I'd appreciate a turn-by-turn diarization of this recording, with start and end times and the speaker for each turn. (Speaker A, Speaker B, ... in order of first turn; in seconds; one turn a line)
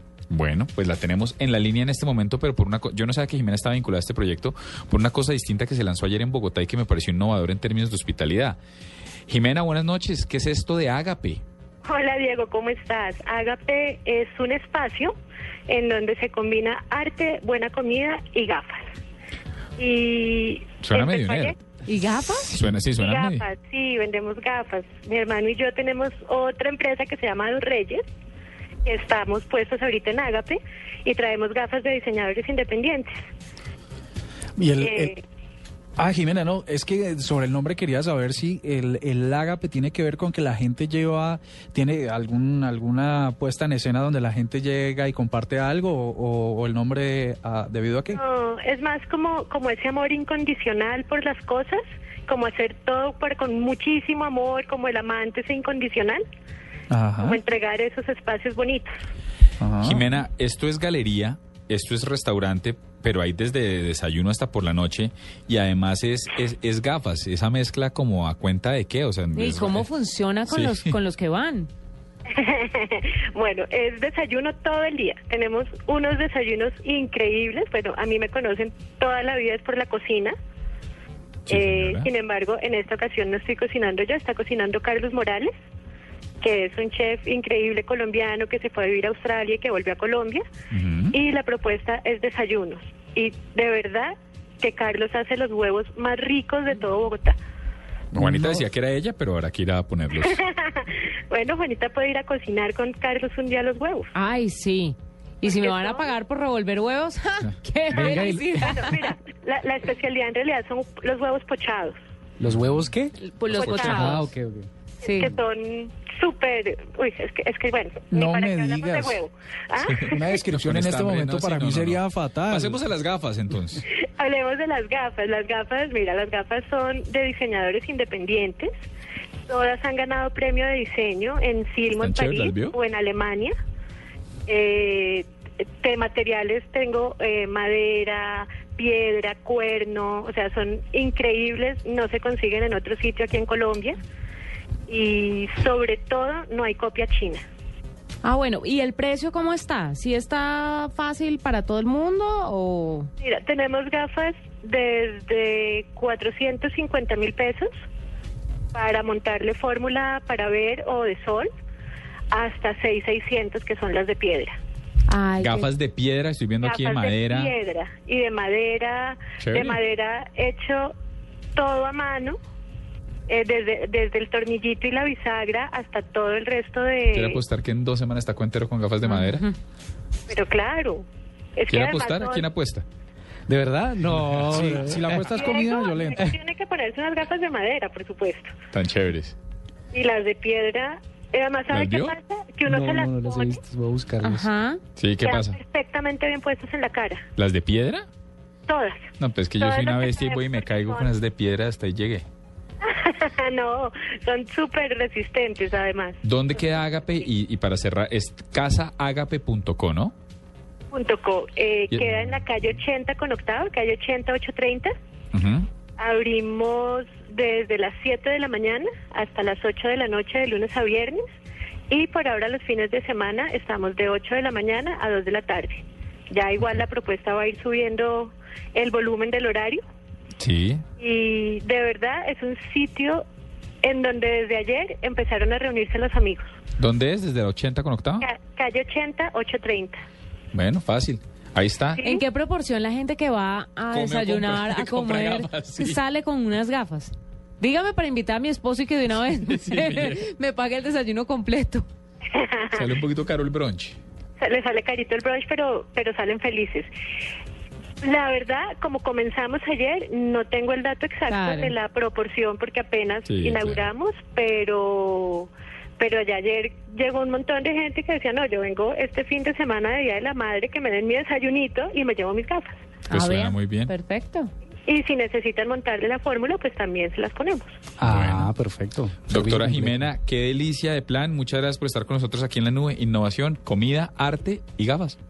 Speaker A: 0.3-8.6
Speaker A: 9.3-11.4
Speaker B: 11.9-15.1
Speaker B: 15.7-18.9
Speaker B: 19.8-21.6
Speaker A: 20.8-21.6
Speaker C: 21.9-22.5
Speaker A: 22.4-23.5
Speaker B: 23.0-28.0
Speaker B: 28.9-33.1
Speaker D: 34.6-35.1
Speaker B: 34.8-35.2
Speaker D: 36.0-48.2
Speaker B: 48.1-56.2
Speaker D: 56.9-57.4
Speaker B: 57.2-58.9
Speaker D: 59.6-60.1
Speaker A: 59.8-69.9
Speaker C: 69.3-71.7
Speaker A: 70.5-71.0
Speaker B: 72.3-80.3
Speaker A: 81.5-82.1
Speaker B: 81.5-85.5
Speaker B: 86.4-90.5
Speaker A: 90.7-91.2
Speaker B: 91.1-97.4
Speaker A: 98.1-100.4
Speaker E: 98.2-98.6
Speaker B: 100.2-104.1
Speaker C: 104.1-109.0
Speaker B: 105.4-106.1
Speaker B: 107.9-112.0
Speaker E: 112.4-113.1
Speaker A: 112.5-112.9
Speaker C: 113.2-114.3
Speaker B: 113.5-114.3
Speaker E: 113.7-114.7
Speaker B: 115.0-120.4
Speaker C: 115.0-115.4
Speaker D: 118.1-119.2
Speaker A: 119.9-123.8
Speaker D: 120.0-122.8
Speaker B: 124.2-128.7
Speaker B: 129.5-133.5
Speaker A: 132.0-132.8
Speaker B: 134.5-135.3
Speaker B: 135.8-144.0
Speaker B: 144.9-147.4
Speaker C: 148.2-153.1
Speaker B: 153.2-157.7
Speaker B: 158.7-161.5
Speaker B: 162.3-164.6
Speaker C: 165.1-165.7
Speaker A: 165.4-167.5
Speaker B: 166.6-170.9
Speaker A: 169.4-169.8
Speaker B: 171.6-172.4
Speaker B: 173.3-177.4
Speaker A: 177.1-179.5
Speaker C: 179.0-179.5
Speaker B: 180.3-181.1
Speaker B: 181.6-182.5
Speaker A: 181.7-182.8
Speaker E: 183.5-185.3
Speaker A: 184.2-184.8
Speaker D: 184.5-186.2
Speaker B: 185.3-188.5
Speaker A: 188.7-189.4
Speaker B: 189.9-193.6
Speaker A: 191.7-192.2
Speaker E: 192.7-194.5
Speaker C: 194.2-194.8
Speaker A: 195.0-195.6
Speaker B: 195.2-197.3
Speaker A: 197.4-198.1
Speaker B: 198.7-201.1
Speaker A: 199.2-202.2
Speaker B: 202.8-206.2
Speaker A: 206.2-210.2
Speaker B: 210.9-214.9
Speaker A: 215.3-215.7
Speaker B: 216.0-221.2
Speaker B: 221.9-229.8
Speaker A: 230.4-230.8
Speaker B: 231.0-233.2
Speaker B: 233.8-236.5
Speaker A: 236.8-238.3
Speaker B: 238.2-240.0
Speaker A: 240.5-242.0
Speaker B: 242.0-242.2
Speaker C: 242.0-251.9
Speaker A: 243.9-246.0
Speaker A: 249.5-250.2
Speaker B: 252.3-252.9
Speaker A: 252.7-254.0
Speaker B: 254.4-256.9
Speaker B: 258.0-272.8
Speaker C: 261.3-261.7
Speaker A: 263.3-263.9
Speaker A: 273.1-273.9
Speaker C: 273.1-274.5
Speaker B: 274.9-277.8
Speaker A: 278.0-278.5
Speaker E: 278.0-280.0
Speaker A: 279.3-285.2